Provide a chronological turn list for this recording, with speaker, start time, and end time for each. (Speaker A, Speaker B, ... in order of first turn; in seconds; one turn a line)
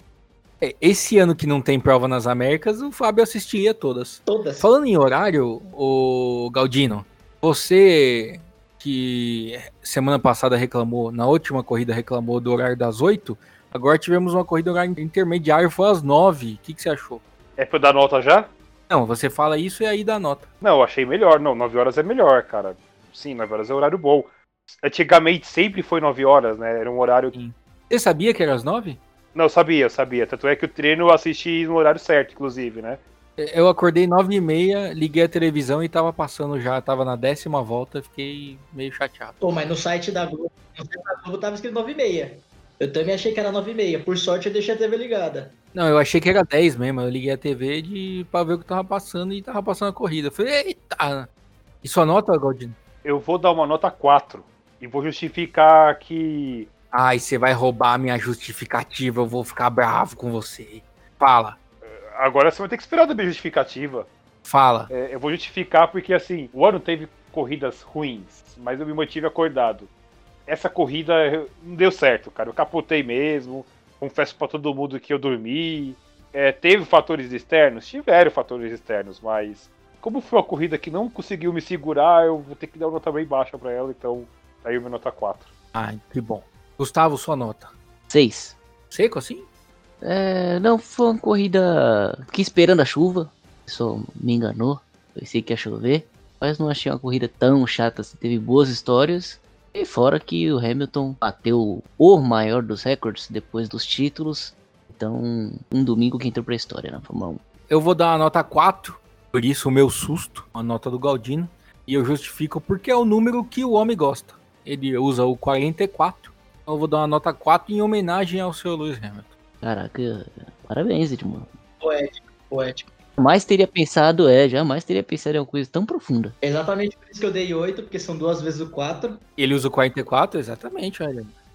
Speaker A: 0.6-17.2
Speaker B: 4.2-4.7
Speaker C: 17.6-18.5
Speaker A: 18.9-20.4
Speaker C: 20.6-24.3
Speaker C: 24.8-27.4
Speaker A: 27.3-29.0
Speaker C: 29.3-33.0
Speaker A: 33.4-39.4
Speaker B: 39.4-45.5
Speaker A: 45.7-51.3
Speaker A: 51.8-52.8
Speaker C: 53.0-56.7
Speaker A: 56.9-61.6
Speaker C: 61.8-64.1
Speaker A: 64.4-64.9
Speaker C: 64.9-69.9
Speaker C: 70.5-85.5
Speaker A: 85.7-87.7
Speaker D: 88.1-88.6
Speaker A: 88.9-89.5
Speaker D: 90.0-107.4
Speaker A: 107.7-119.3
Speaker D: 119.6-121.5
Speaker B: 121.8-122.9
Speaker D: 123.2-126.3
Speaker B: 126.4-129.2
Speaker A: 129.4-131.3